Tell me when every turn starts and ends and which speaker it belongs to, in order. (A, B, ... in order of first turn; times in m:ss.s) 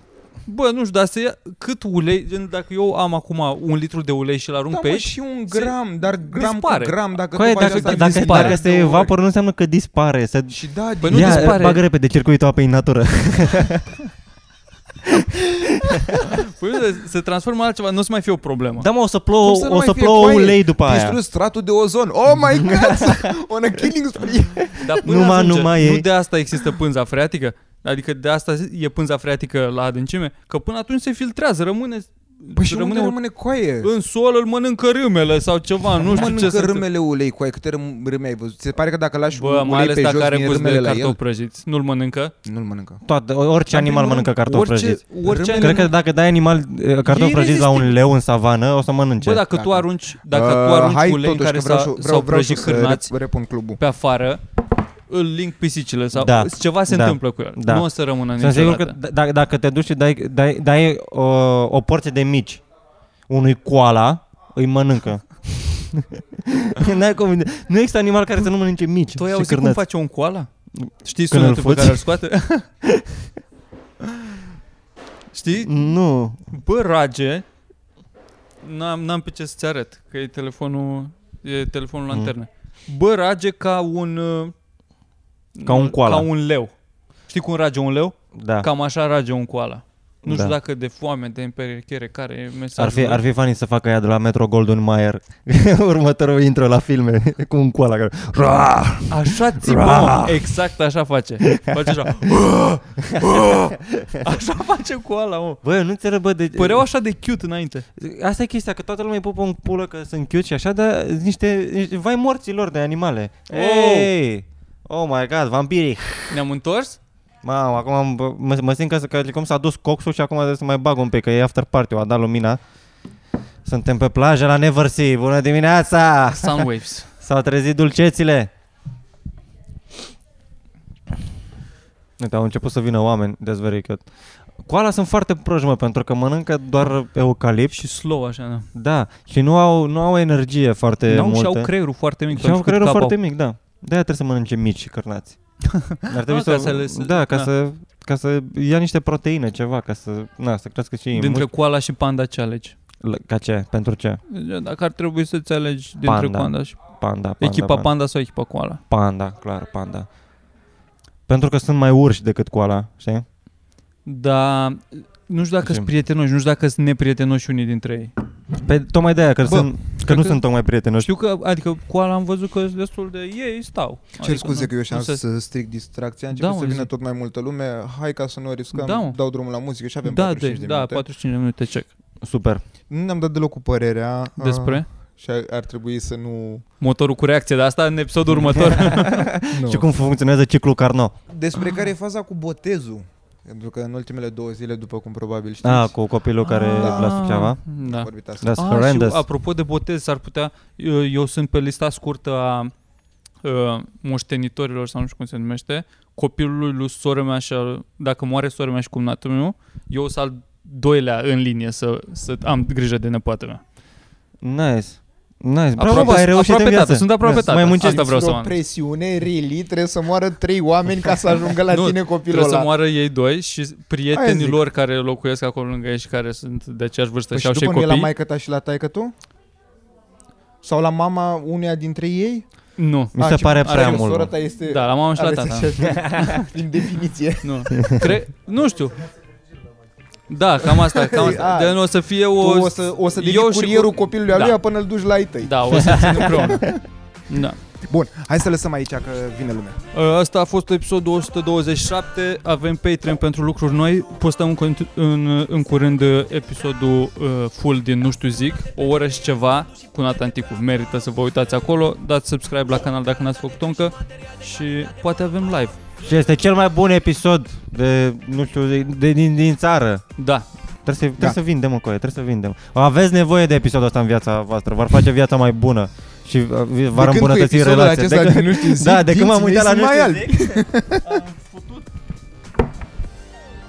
0:00.4-0:09.1 A
0:04.7-0:09.1 B
0:07.3-0:10.6 C
0:10.5-0:11.6 B
0:11.0-0:11.8 A
0:11.1-0:13.9 C
0:15.0-0:16.3 C
0:16.2-0:18.9 A
0:18.8-0:21.2 C
0:19.4-0:24.7 B
0:22.6-0:23.3 C
0:24.6-0:26.1 C
0:24.8-0:33.2 A
0:32.6-0:33.9 B
0:33.8-0:36.8 A
0:36.1-0:41.2 B
0:39.4-0:42.3 A
0:42.4-0:43.0 B
0:43.0-0:45.0 C
0:43.7-0:45.9 A
0:45.2-0:45.9 B
0:45.6-0:49.5 C
0:47.1-0:48.0 A
0:49.2-0:53.1 A
0:49.5-0:53.8 B
0:53.8-0:54.4 A
0:55.1-0:59.0 A
0:56.1-1:02.6 C
1:03.3-1:09.8 C
1:09.2-1:10.5 A
1:10.8-1:12.1 C
1:11.0-1:12.7 A
1:12.8-1:13.3 C
1:15.3-1:15.9 A
1:15.5-1:16.4 C
1:16.5-1:17.4 A
1:18.6-1:24.6 A
1:25.6-1:26.7 A
1:25.6-1:26.3 C
1:27.3-1:33.2 A
1:28.3-1:28.7 C
1:30.2-1:30.5 C
1:32.8-1:40.5 C
1:39.1-1:45.6 A
1:41.4-1:42.3 C
1:43.1-1:44.2 C
1:45.6-1:46.8 C
1:46.5-1:47.9 A
1:48.0-1:56.4 C
1:53.5-1:54.1 A
1:56.3-1:57.0 A
1:57.4-2:02.6 C
2:03.6-2:06.7 C
2:06.3-2:07.1 A
2:07.2-2:08.5 C
2:12.2-2:17.8 C
2:17.7-2:18.7 A
2:18.7-2:21.7 C
2:21.1-2:23.2 A
2:22.4-2:25.4 C
2:25.7-2:27.5 A
2:26.1-2:31.5 C
2:31.1-2:32.8 A
2:33.0-2:34.2 C
2:34.3-2:36.8 A
2:36.0-2:37.9 C
2:37.4-2:38.8 A
2:38.9-2:40.1 C
2:41.3-2:43.2 C
2:44.1-2:48.1 A
2:48.6-2:51.1 C
2:49.4-2:49.7 B
2:50.1-2:50.4 A
2:51.0-2:55.2 A
2:54.2-3:01.0 B
2:56.3-2:56.9 A
2:58.7-2:59.2 A
3:00.0-3:01.9 A
3:02.2-3:02.6 C
3:02.9-3:06.6 B
3:04.4-3:04.9 A
3:06.8-3:09.3 A
3:08.5-3:11.1 C
3:09.5-3:09.9 B
3:11.3-3:15.9 B
3:15.6-3:17.6 C
3:16.4-3:22.7 A
3:16.8-3:17.2 B
3:17.8-3:18.6 B
3:18.4-3:19.2 C
3:23.4-3:33.6 A
3:34.4-3:38.0 C
3:35.8-3:38.6 A
3:37.8-3:42.7 B
3:41.7-3:48.1 A
3:44.1-3:44.6 B
3:47.3-3:49.1 B
3:50.6-3:52.4 B
3:52.8-3:54.1 A
3:53.1-3:54.3 C
3:53.2-3:57.8 B
3:54.6-3:56.5 A
3:55.8-3:56.2 C
3:57.4-3:59.0 A
3:57.8-3:58.1 C
4:00.3-4:04.6 A
4:00.7-4:06.8 B
4:05.4-4:06.7 A
4:05.7-4:06.8 C
4:07.3-4:07.6 A
4:07.9-4:09.8 B
4:09.9-4:25.8 A
4:26.0-4:30.0 C
4:30.2-4:30.5 A
4:30.8-4:41.9 C
4:37.0-4:41.2 B